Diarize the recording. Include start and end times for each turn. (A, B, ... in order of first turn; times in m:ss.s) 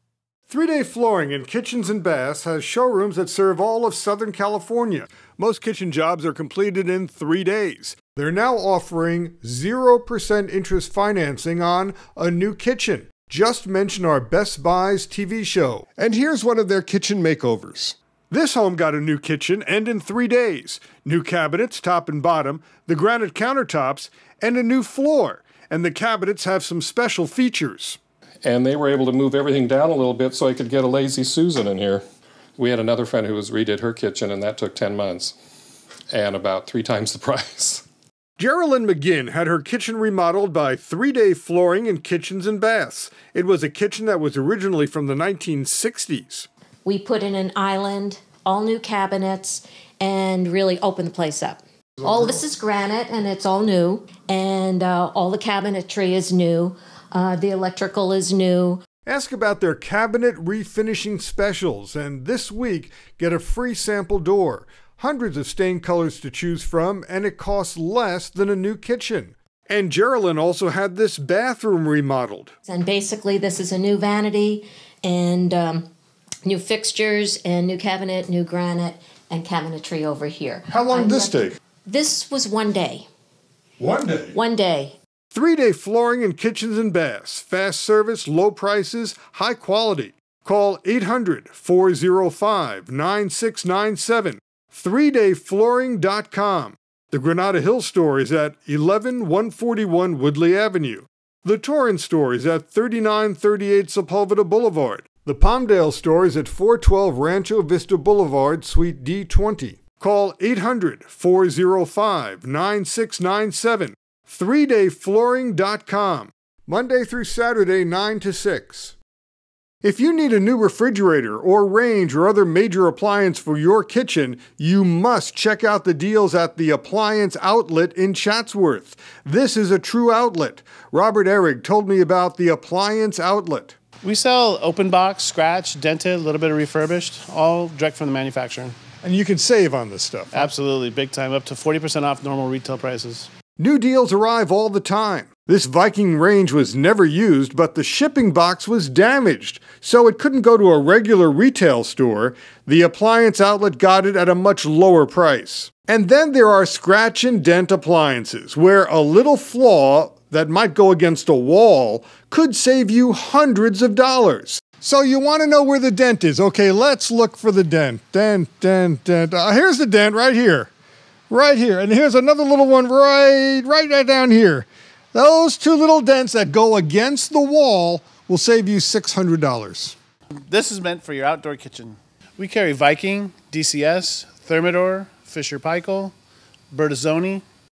0:00.5-0:28.0 A
0:28.4-0:32.0 B
0:32.6-0:35.3 B
0:36.1-0:37.8 B
0:38.4-0:46.5 A
0:46.8-0:58.8 C
0:59.0-1:12.6 A
1:12.6-1:15.9 C
1:16.4-1:23.1 C
1:20.7-1:21.6 A
1:23.8-1:24.4 A
1:24.3-1:25.0 C
1:25.3-1:58.9 A
1:59.8-2:13.8 A
2:14.0-2:18.8 D
2:19.0-2:20.5 A
2:20.3-2:23.3 D
2:23.6-2:50.7 A
2:51.3-2:59.9 A
3:00.4-3:06.1 D
3:06.7-3:07.4 D